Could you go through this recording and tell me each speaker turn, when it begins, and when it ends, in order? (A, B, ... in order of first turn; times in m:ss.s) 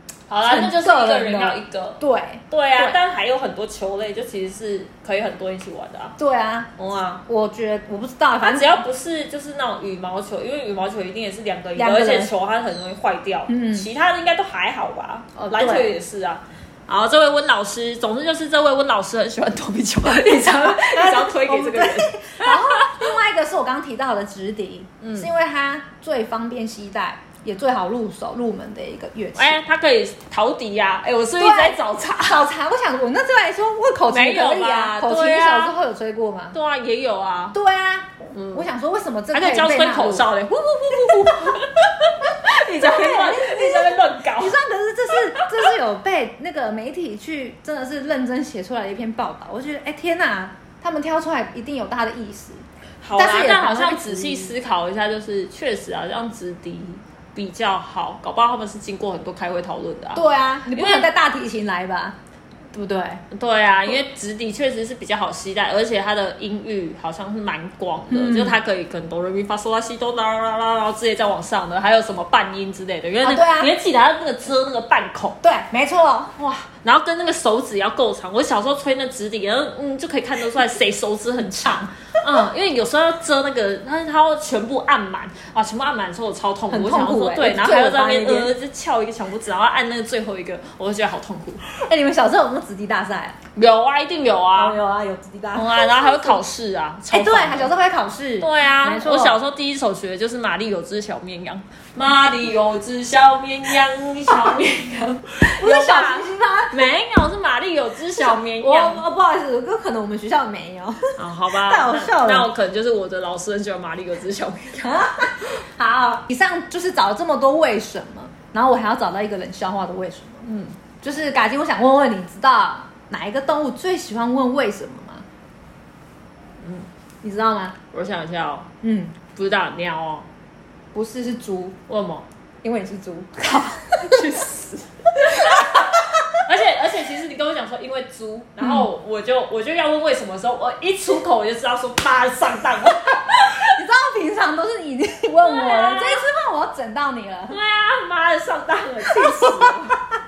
0:00.3-0:06.2 A
0:00.4-0:03.0 B
0:06.2-0:06.7 B
0:06.8-0:07.2 A
0:07.2-0:08.8 B
0:08.4-0:23.1 A
0:11.8-0:12.3 B
0:13.5-0:13.9 B
0:15.4-0:16.0 B
0:20.2-0:29.6 B
0:25.0-0:25.3 A
0:29.3-0:32.4 A
0:31.4-0:36.6 B
0:34.1-0:35.8 A
0:36.5-0:37.6 A
0:37.5-0:40.3 B
0:38.3-0:38.7 A
0:39.3-0:44.6 A
0:40.9-0:41.7 B
0:42.8-0:52.6 B
0:53.0-1:01.1 A
0:53.2-0:54.5 B
1:00.1-1:02.2 B
1:02.7-1:03.2 B
1:03.3-1:15.4 A
1:08.1-1:08.6 B
1:13.2-1:13.7 B
1:15.4-1:16.3 B
1:16.4-1:31.6 A
1:21.6-1:21.9 B
1:26.7-1:28.5 B
1:31.6-1:33.4 B
1:33.6-1:34.8 A
1:34.6-1:36.4 B
1:35.5-1:37.7 A
1:37.1-1:39.4 B
1:38.4-1:49.0 A
1:45.6-1:46.8 B
1:48.2-1:52.5 B
1:51.2-1:55.4 A
1:54.8-2:00.4 B
2:00.4-2:00.8 A
2:01.0-2:05.2 B
2:06.6-2:06.9 A
2:07.2-2:07.8 B
2:07.9-2:08.7 A
2:08.8-2:09.2 B
2:09.3-2:10.2 A
2:10.9-2:11.8 B
2:11.9-2:12.2 A
2:12.6-2:14.3 B
2:13.4-2:23.8 A
2:15.2-2:16.4 B
2:18.6-2:18.9 B
2:23.5-2:27.6 B
2:25.4-2:26.2 A
2:27.5-2:30.0 A
2:29.1-2:29.8 B